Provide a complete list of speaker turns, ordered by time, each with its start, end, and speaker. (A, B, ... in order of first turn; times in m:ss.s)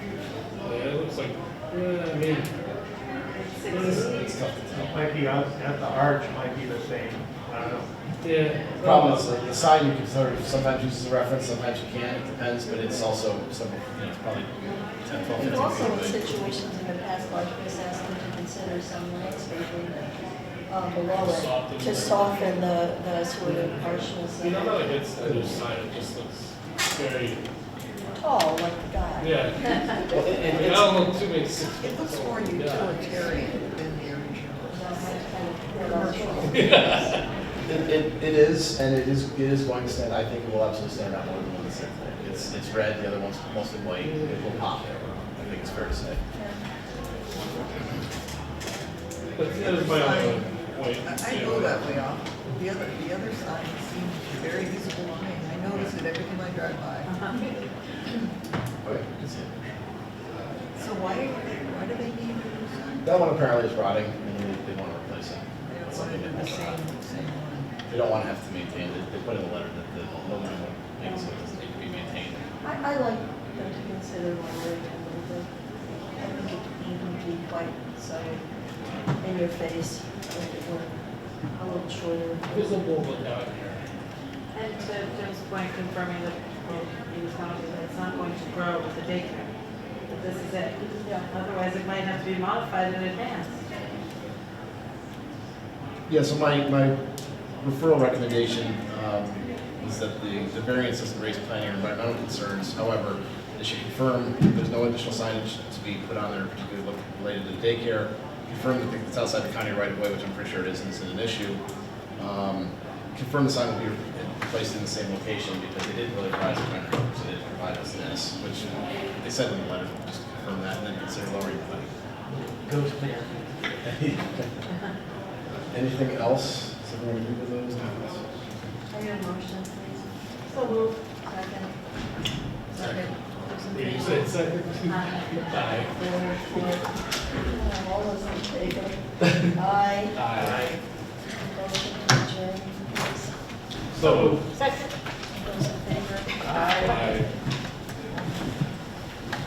0:00.6-0:02.5 A
0:03.3-0:04.3 B
0:03.7-0:04.2 A
0:03.7-0:05.0 C
0:04.9-0:07.9 D
0:08.2-0:09.3 A
0:08.8-0:16.2 C
0:15.4-0:24.9 E
0:21.1-0:22.7 A
0:23.4-0:27.4 A
0:25.2-0:25.5 C
0:28.2-0:30.3 E
0:29.2-0:33.1 A
0:30.1-0:31.0 C
0:31.8-0:36.5 F
0:34.7-0:36.8 E
0:36.4-0:37.2 A
0:37.6-0:46.2 C
0:44.0-0:44.6 A
0:46.3-0:46.6 E
0:49.4-0:52.0 A
0:49.6-0:57.3 F
0:57.1-0:57.4 B
0:58.8-0:59.7 C
1:00.7-1:03.1 F
1:03.0-1:06.8 C
1:05.7-1:07.7 F
1:07.9-1:12.4 C
1:11.0-1:11.4 E
1:12.6-1:15.5 E
1:16.1-1:18.4 E
1:19.2-1:22.8 E
1:22.4-1:23.9 A
1:24.5-1:29.5 B
1:30.1-1:33.6 B
1:31.0-1:31.3 E
1:36.1-1:37.0 C
1:37.6-1:51.6 C
1:52.2-2:01.9 C
2:02.6-2:03.3 D
2:03.8-2:04.5 C
2:05.7-2:08.2 C
2:08.9-2:11.9 E
2:10.5-2:10.9 B
2:12.7-2:14.3 E
2:13.7-2:15.9 A
2:14.9-2:15.6 B
2:15.9-2:20.3 E
2:20.2-2:20.8 A
2:21.2-2:23.4 E
2:24.0-2:24.4 A
2:24.0-2:24.3 D
2:24.5-2:27.1 E
2:26.4-2:27.3 A